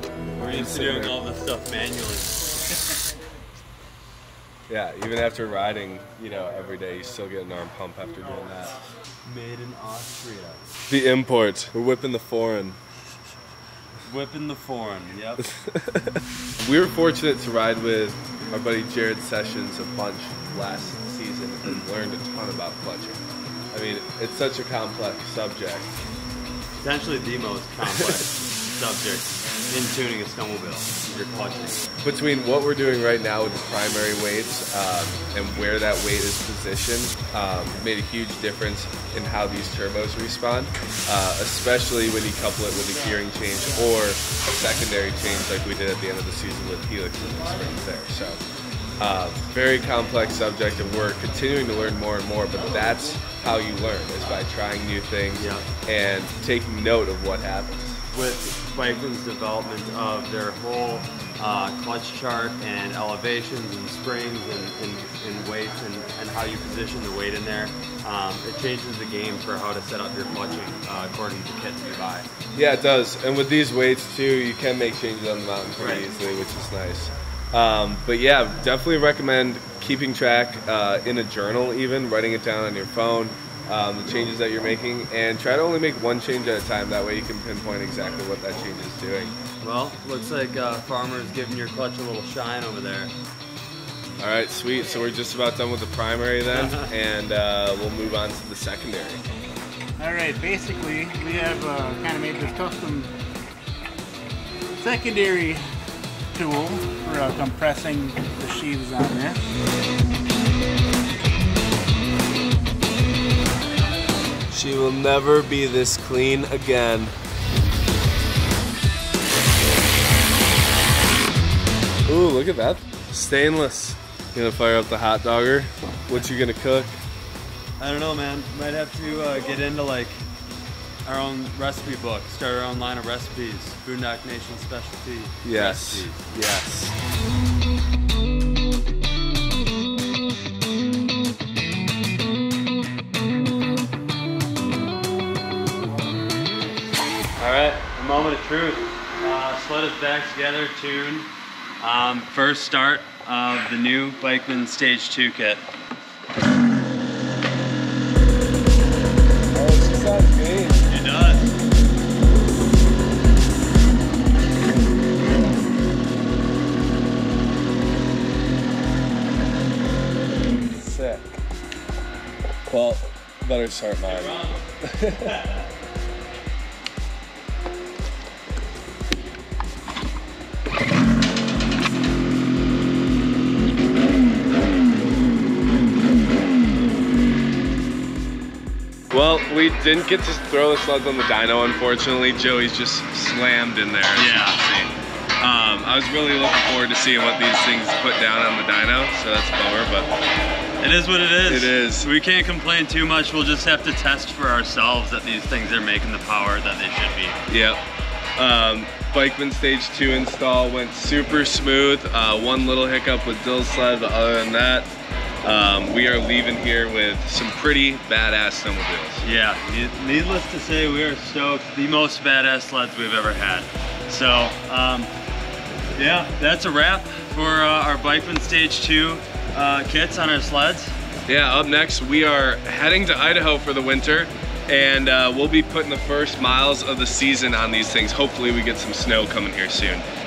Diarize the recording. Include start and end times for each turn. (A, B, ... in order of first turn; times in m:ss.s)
0:00.4-0:02.4 A
0:00.4-0:01.2 B
0:04.7-0:08.9 B
0:09.2-0:10.7 A
0:10.9-0:12.8 B
0:14.0-0:15.4 A
0:15.5-0:23.2 B
0:23.7-0:26.0 B
0:26.8-0:31.8 A
0:32.0-0:48.4 B
0:49.0-0:58.0 B
0:55.4-0:55.7 A
0:58.1-1:12.3 A
1:12.5-1:29.4 B
1:15.8-1:16.1 A
1:29.6-1:33.1 A
1:34.2-1:39.2 B
1:36.5-1:36.9 A
1:40.0-1:43.1 C
1:44.8-1:45.6 C
1:46.3-1:49.4 C
1:54.5-1:57.2 B
2:02.1-2:07.0 B
2:07.8-2:10.3 A
2:11.0-2:16.4 A
2:15.4-2:17.0 B
2:27.4-2:35.6 A
2:39.5-2:40.9 B
2:40.9-2:41.5 A
2:50.5-2:51.4 B
2:52.7-2:55.4 B
2:54.0-2:54.6 A
2:55.3-2:55.6 A
3:09.1-3:20.1 B
3:14.2-3:14.6 A
3:20.8-3:27.4 A
3:21.5-3:22.1 B
3:27.5-3:27.8 B
3:28.4-3:39.2 B
3:39.2-3:45.1 A
3:46.0-3:51.0 A
3:51.3-4:00.1 B